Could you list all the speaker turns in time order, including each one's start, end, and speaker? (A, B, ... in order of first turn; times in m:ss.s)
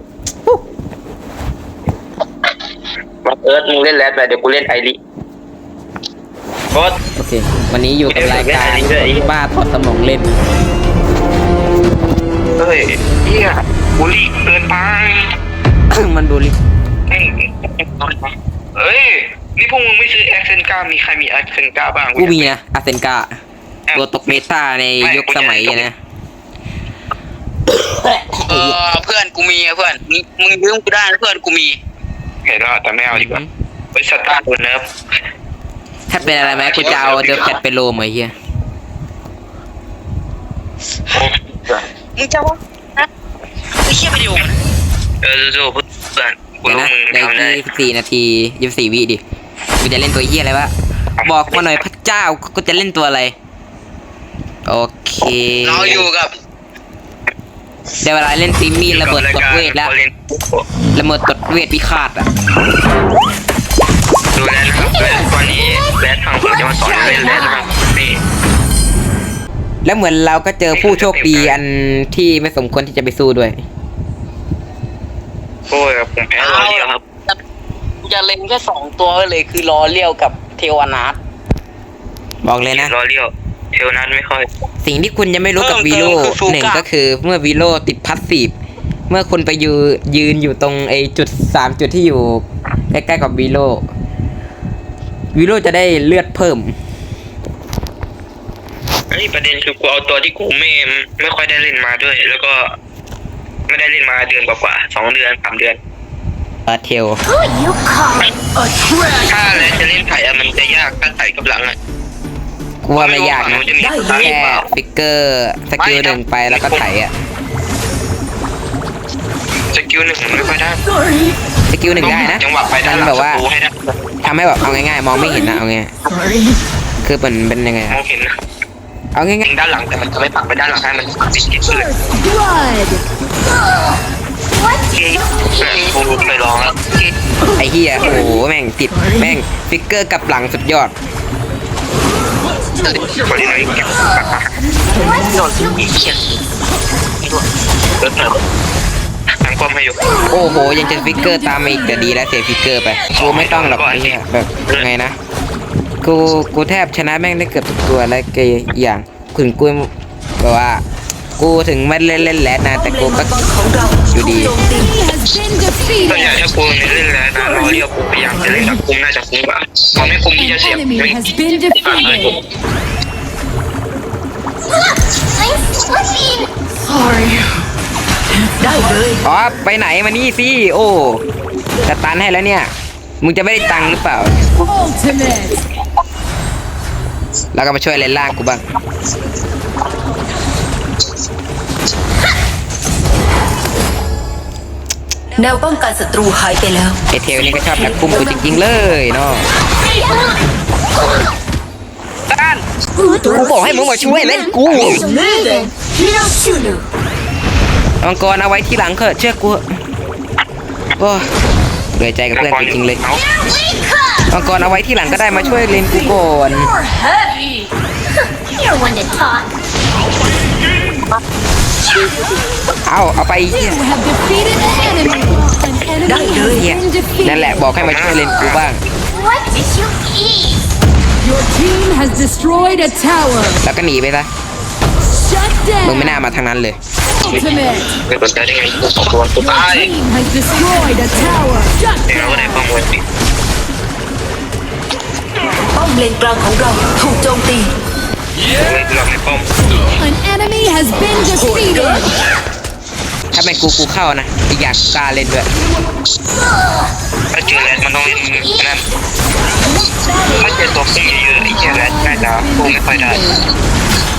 0:03.2-0:05.0 A
0:06.7-0:07.0 A
0:07.2-0:10.4 B
0:08.1-0:09.3 A
0:12.6-0:15.4 A
0:15.9-0:16.6 B
0:17.1-0:22.5 A
0:22.2-0:23.4 B
0:24.0-0:26.0 B
0:25.0-0:25.9 A
0:28.4-0:31.8 C
0:32.5-0:33.4 A
0:33.1-0:33.5 B
0:33.9-0:34.9 A
0:36.1-0:38.3 B
0:36.5-0:37.5 A
0:41.1-0:41.8 A
0:44.1-0:44.5 C
0:45.2-0:47.6 A
0:46.6-0:49.2 B
0:49.8-0:50.7 B
0:51.2-0:51.6 A
0:51.2-0:53.4 B
0:54.7-0:56.1 B
0:55.6-0:56.4 C
0:58.0-0:59.9 B
0:58.9-1:00.7 A
1:01.0-1:02.3 B
1:04.4-1:08.2 A
1:09.8-1:13.6 B
1:10.7-1:11.6 A
1:15.7-1:17.0 A
1:16.4-1:17.3 C
1:18.0-1:21.2 C
1:22.4-1:22.9 B
1:22.7-1:24.5 A
1:24.8-1:28.5 B
1:25.6-1:26.8 C
1:29.1-1:33.8 B
1:35.3-1:36.8 B
1:39.1-1:42.7 A
1:43.7-1:45.8 A
1:46.7-1:47.2 B
1:47.3-1:49.2 D
1:49.1-1:51.8 A
1:52.8-1:57.1 B
1:53.0-1:54.6 A
1:53.8-1:54.3 E
1:55.8-1:56.8 A
1:59.7-2:00.8 A
2:01.7-2:03.4 B
2:02.0-2:03.9 A
2:04.2-2:05.9 B
2:07.0-2:08.0 B
2:07.9-2:08.3 A
2:09.2-2:09.5 B
2:09.4-2:11.9 A
2:12.0-2:13.0 F
2:14.9-2:17.2 A
2:17.6-2:20.9 B
2:22.8-2:24.5 A
2:25.4-2:26.2 A
2:28.0-2:28.4 A
2:29.4-2:30.1 A
2:30.3-2:35.2 B
2:33.1-2:34.9 A
2:36.0-2:40.8 B
2:41.4-2:43.4 B
2:42.7-2:45.1 E
2:44.1-2:44.6 B
2:44.8-2:46.2 F
2:46.0-2:52.4 A
2:50.5-2:52.3 F
2:55.4-2:56.5 D
2:58.6-2:59.2 E
2:59.2-3:01.2 B
3:01.8-3:04.4 B
3:04.8-3:05.5 F
3:07.5-3:08.7 B
3:15.4-3:17.0 E
3:17.1-3:19.5 B
3:23.0-3:26.8 D
3:23.2-3:25.0 B
3:28.0-3:29.7 B
3:31.0-3:31.3 B
3:32.0-3:33.0 B
3:32.3-3:33.3 A
3:34.3-3:36.7 B
3:38.5-3:39.5 D
3:42.9-3:43.9 B
3:43.8-3:47.3 F
3:46.0-3:46.7 E
3:46.5-3:48.8 B
3:47.8-3:48.6 A
3:49.1-3:50.6 D
3:51.2-3:53.6 F
3:53.6-3:54.3 B
3:55.2-3:56.0 F
3:55.8-3:56.8 B
3:57.3-3:57.8 F
3:58.1-3:59.9 A
3:59.6-4:02.0 F
4:02.1-4:03.0 A
4:05.8-4:07.7 E
4:08.5-4:09.5 A
4:10.0-4:12.1 F
4:13.3-4:15.5 B
4:17.3-4:18.8 A
4:20.4-4:23.3 A
4:21.6-4:23.4 F